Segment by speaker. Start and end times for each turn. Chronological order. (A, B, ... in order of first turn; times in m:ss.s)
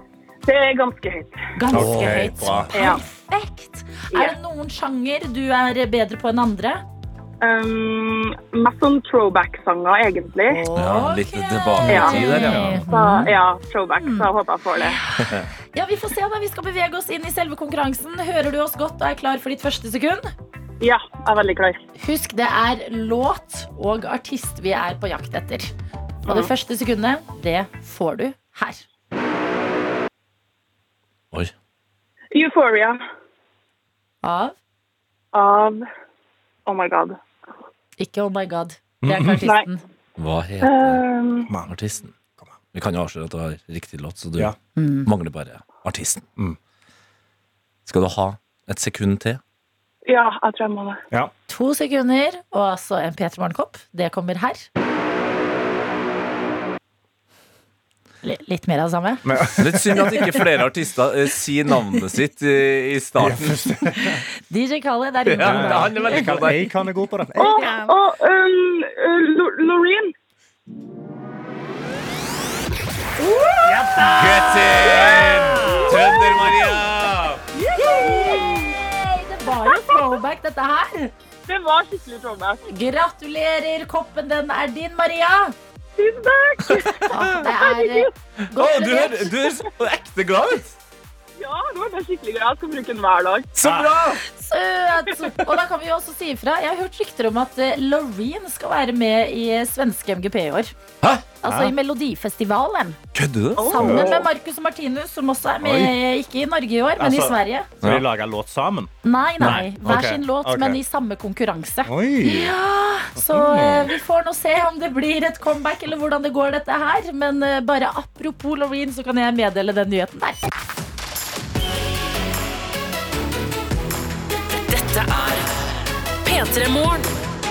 0:00.4-0:01.4 A
0:01.6-0:06.8 B
0:01.7-0:02.8 C
0:01.7-0:02.7 D
0:02.7-0:03.0 A
0:07.4-0:10.6 A
0:10.5-0:13.4 B
0:10.8-0:12.8 D
0:11.8-0:12.7 C
0:11.9-0:15.0 A
0:14.0-0:14.3 B
0:15.1-0:20.3 B
0:15.2-0:15.5 D
0:20.8-0:21.8 A
0:22.0-0:25.7 B
0:26.2-0:28.8 B
0:32.3-0:33.0 A
0:34.2-0:34.6 B
0:35.3-0:35.8 A
0:36.7-0:37.2 A
0:38.0-0:39.8 B
0:39.0-0:39.4 C
0:40.2-0:41.0 D
0:40.6-0:41.5 A
0:41.6-0:42.1 D
0:42.7-0:44.5 D
0:44.8-0:45.1 B
0:45.0-0:46.2 D
0:47.9-0:49.4 D
0:50.1-0:51.0 A
0:51.5-0:54.7 B
0:58.2-0:59.5 B
0:59.2-1:00.2 C
0:59.6-1:03.7 D
1:03.2-1:04.2 C
1:04.0-1:06.6 B
1:05.3-1:06.7 D
1:05.4-1:07.9 C
1:07.4-1:10.1 A
1:13.2-1:14.4 B
1:13.6-1:16.0 C
1:14.1-1:17.4 D
1:17.5-1:21.1 B
1:17.7-1:18.8 A
1:19.6-1:20.0 A
1:21.5-1:22.6 A
1:22.7-1:25.6 B
1:26.0-1:28.1 A
1:27.1-1:29.3 B
1:28.6-1:30.8 D
1:31.4-1:33.5 A
1:33.6-1:34.2 D
1:33.6-1:34.1 C
1:34.3-1:40.7 B
1:41.4-1:43.0 B
1:41.4-1:41.7 C
1:43.1-1:43.6 D
1:43.6-1:44.3 A
1:43.6-1:47.7 B
1:43.7-1:44.2 C
1:45.6-1:46.0 C
1:47.0-1:50.8 C
1:49.0-2:00.4 B
1:51.8-1:52.6 C
1:53.2-1:54.0 C
2:04.5-2:05.6 E
2:06.2-2:07.1 E